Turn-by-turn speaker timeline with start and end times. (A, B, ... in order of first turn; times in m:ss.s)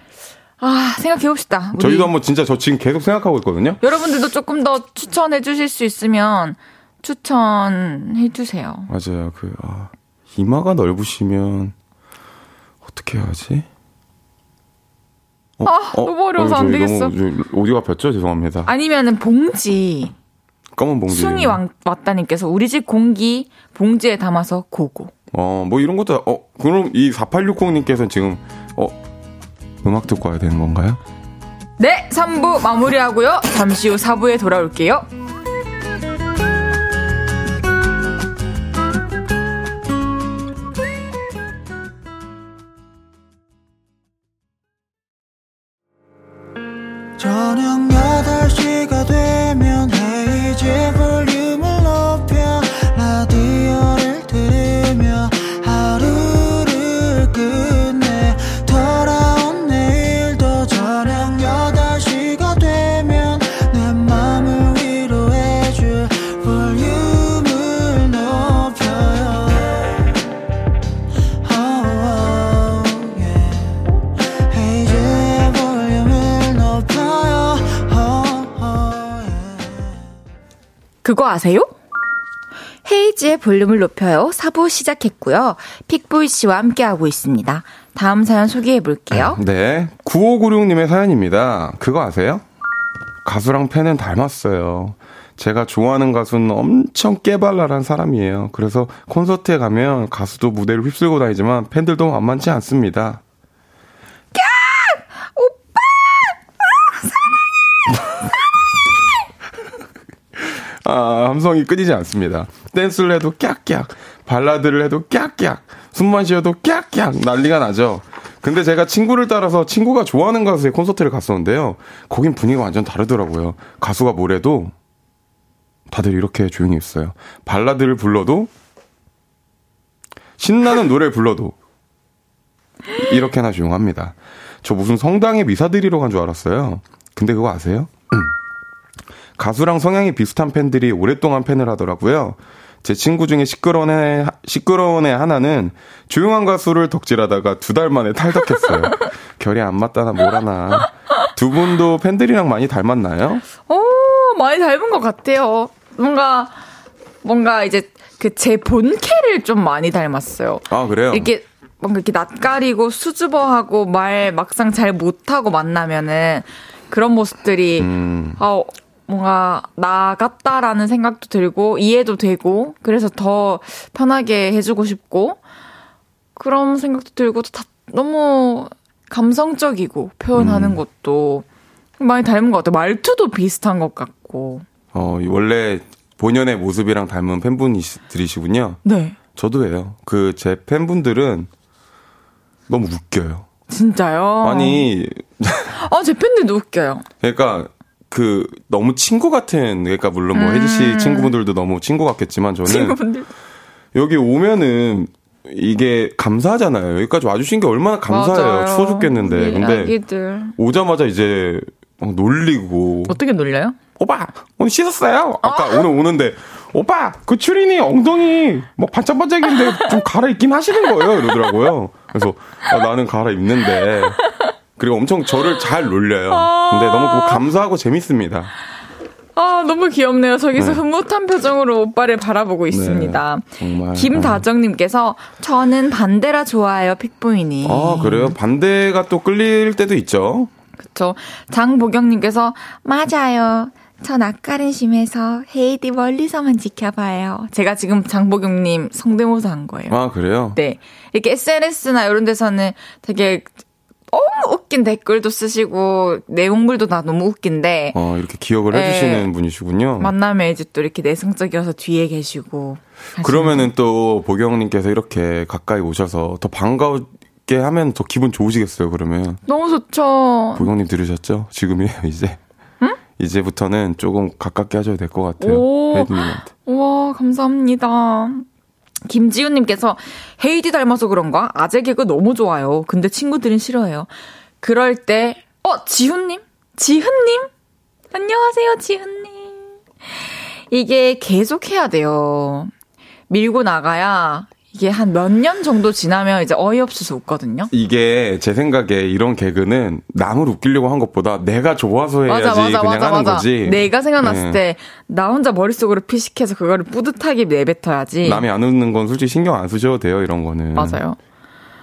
0:00.6-0:02.1 A
0:01.8-0:03.8 B
0:03.8-0:08.9 A
0:08.9-0:11.7 B
0:12.8-0:13.7 B
0:15.6-0:18.7 B
0:15.6-0:17.1 A
0:18.6-0:20.1 A
0:20.7-0:21.6 B
0:21.1-0:25.1 A
0:25.3-0:29.0 B
0:29.8-0:31.0 B
0:31.8-0:35.1 A
0:47.2-1:10.0 C
1:11.4-1:13.8 C
1:14.5-1:19.7 C
1:21.0-1:21.7 A
1:22.8-1:29.4 A
1:29.1-1:32.4 B
1:33.2-1:43.2 B
1:44.3-1:47.2 A
1:50.4-2:04.7 B
2:05.9-2:08.5 B
2:10.4-2:11.5 B
2:12.9-2:18.3 B
2:19.4-2:33.4 B
2:33.7-2:36.6 A
2:37.2-2:55.4 A
2:40.7-2:41.3 B
2:47.8-2:48.4 B
2:56.4-3:01.4 A
3:00.3-3:00.8 B
3:02.0-3:04.6 A
3:04.9-3:08.8 B
3:08.8-3:09.2 A
3:09.3-3:11.5 B
3:12.7-3:13.4 B
3:13.7-3:14.8 A
3:14.4-3:15.8 B
3:15.7-3:17.0 A
3:17.2-3:23.0 B
3:20.3-3:21.3 A
3:22.6-3:23.3 A
3:23.9-3:29.9 B
3:28.1-3:30.6 A
3:30.6-3:33.2 B
3:33.1-3:33.8 A
3:34.0-3:44.2 B
3:35.4-3:35.8 A
3:39.5-3:40.0 A
3:41.1-3:41.5 A
3:44.8-3:48.5 B
3:46.3-3:47.4 A
3:49.4-3:58.3 A
3:50.6-3:50.8 B
3:52.7-3:54.4 B
3:57.6-4:00.5 B
4:00.8-4:10.0 A
4:09.9-4:10.6 B
4:10.5-4:13.5 A
4:14.1-4:18.0 A
4:17.9-4:20.1 B
4:18.7-4:19.3 A
4:20.0-4:23.7 A
4:23.2-4:29.4 B
4:29.5-4:30.7 A
4:30.6-4:32.4 B
4:33.2-4:36.5 B
4:35.4-4:38.4 A
4:39.1-4:44.1 A
4:44.6-4:47.5 A
4:48.1-4:52.7 A
4:53.3-4:57.7 A
4:57.7-5:04.6 B
5:02.2-5:08.4 A
5:08.2-5:11.0 B
5:10.7-5:11.2 A